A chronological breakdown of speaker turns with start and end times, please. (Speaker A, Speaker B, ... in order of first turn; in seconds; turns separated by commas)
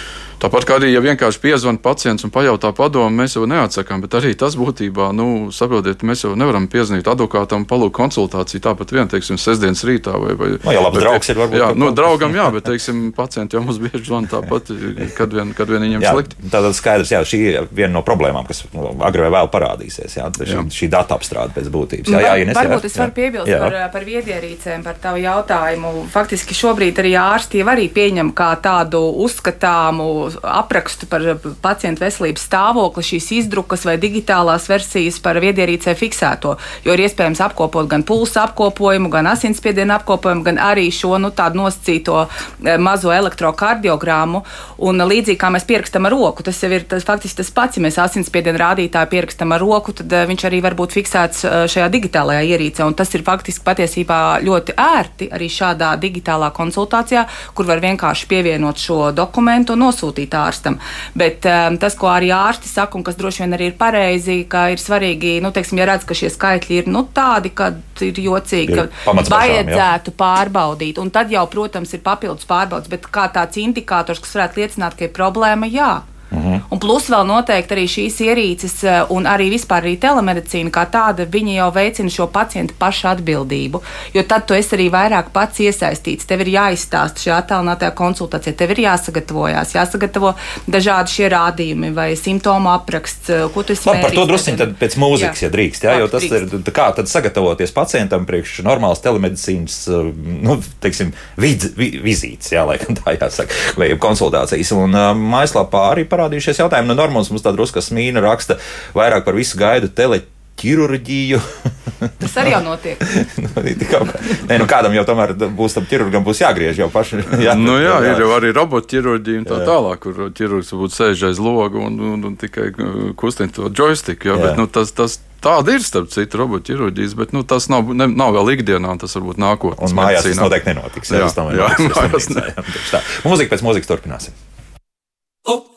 Speaker A: 0.4-16.3, Speaker B: 10.6-12.4, Speaker B: 15.9-23.7, Speaker C: 22.1-76.0, Speaker B: 68.7-69.8, Speaker B: 76.3-76.6, Speaker C: 76.7-95.3, Speaker B: 93.8-111.4, Speaker C: 95.9-96.4, Speaker C: 112.2-113.0, Speaker B: 113.0-118.3, Speaker A: 117.3-130.6, Speaker B: 119.5-119.7, Speaker B: 124.3-124.6, Speaker B: 129.8-134.3, Speaker A: 131.1-132.4